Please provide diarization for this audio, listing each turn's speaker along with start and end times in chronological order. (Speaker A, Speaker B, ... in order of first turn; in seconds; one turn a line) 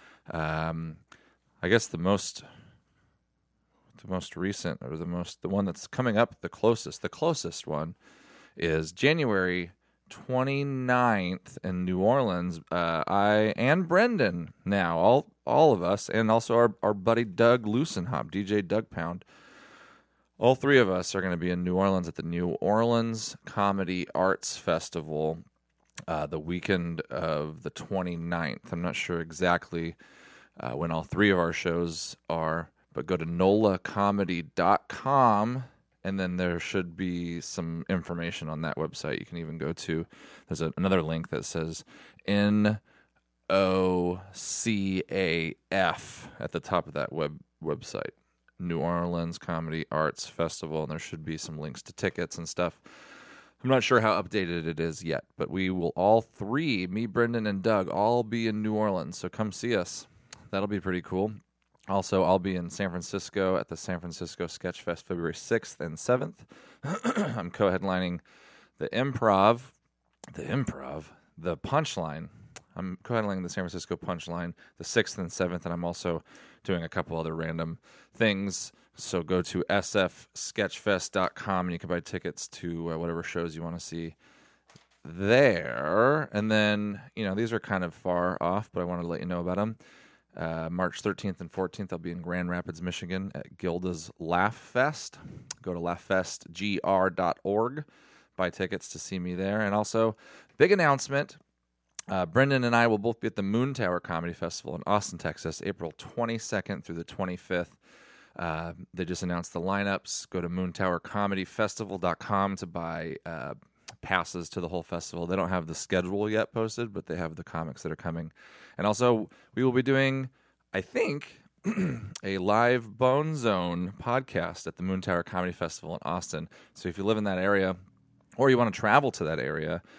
Speaker A: 0.3-1.0
Speaker A: 1.6-2.4
Speaker A: 4.0-8.0
Speaker A: 8.6-19.2
Speaker A: 20.4-25.4
Speaker A: 26.1-30.0
Speaker A: 30.6-42.8
Speaker A: 43.5-52.8
Speaker A: 53.6-61.4
Speaker A: 61.9-68.2
Speaker A: 68.8-69.7
Speaker A: 70.3-84.2
Speaker A: 85.0-89.8
Speaker A: 90.4-97.8
Speaker A: 98.4-101.4
Speaker A: 102.1-107.8
Speaker A: 108.4-127.8
Speaker A: 128.4-129.8